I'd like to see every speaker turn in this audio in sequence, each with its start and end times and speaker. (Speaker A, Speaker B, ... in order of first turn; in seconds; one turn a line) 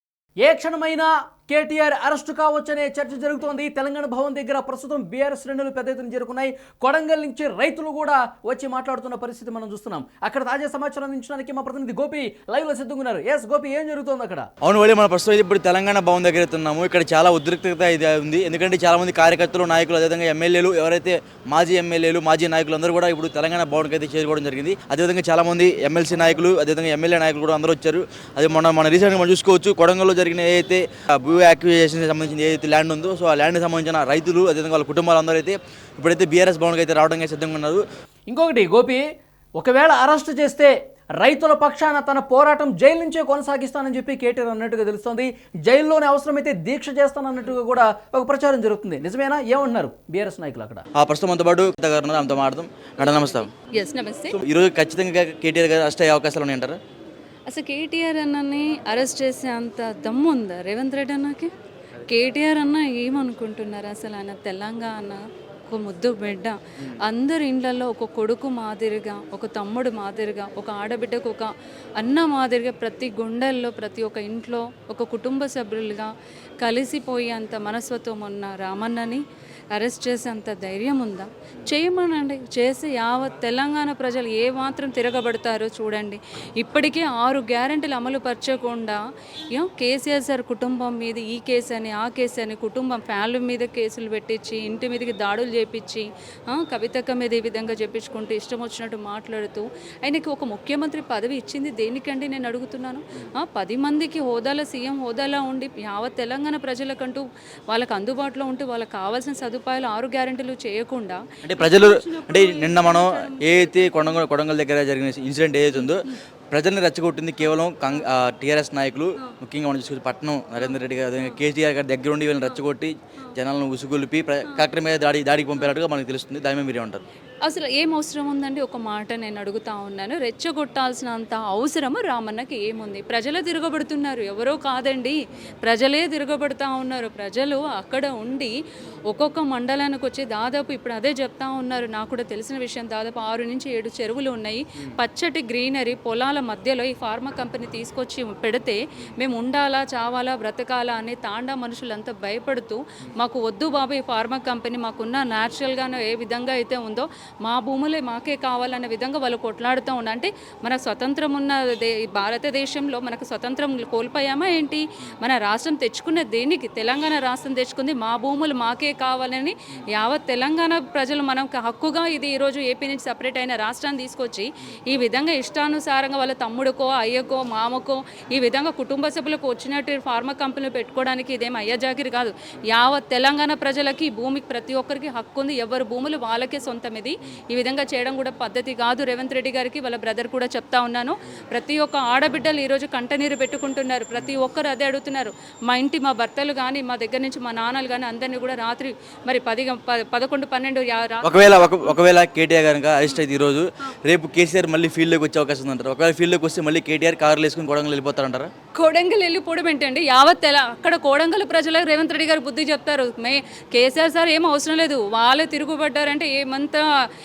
Speaker A: 0.4-14.5
Speaker B: 14.6-37.8
Speaker A: 38.3-39.0
Speaker A: 39.6-50.8
Speaker B: 51.0-53.5
Speaker C: 53.0-54.4
Speaker B: 54.3-56.8
Speaker C: 57.5-61.5
Speaker C: 62.1-89.0
Speaker C: 89.5-114.2
Speaker B: 111.4-127.0
Speaker C: 115.8-116.2
Speaker C: 120.6-121.4
Speaker C: 127.4-138.5
Speaker C: 139.1-202.0
Speaker B: 201.2-208.5
Speaker C: 208.7-216.8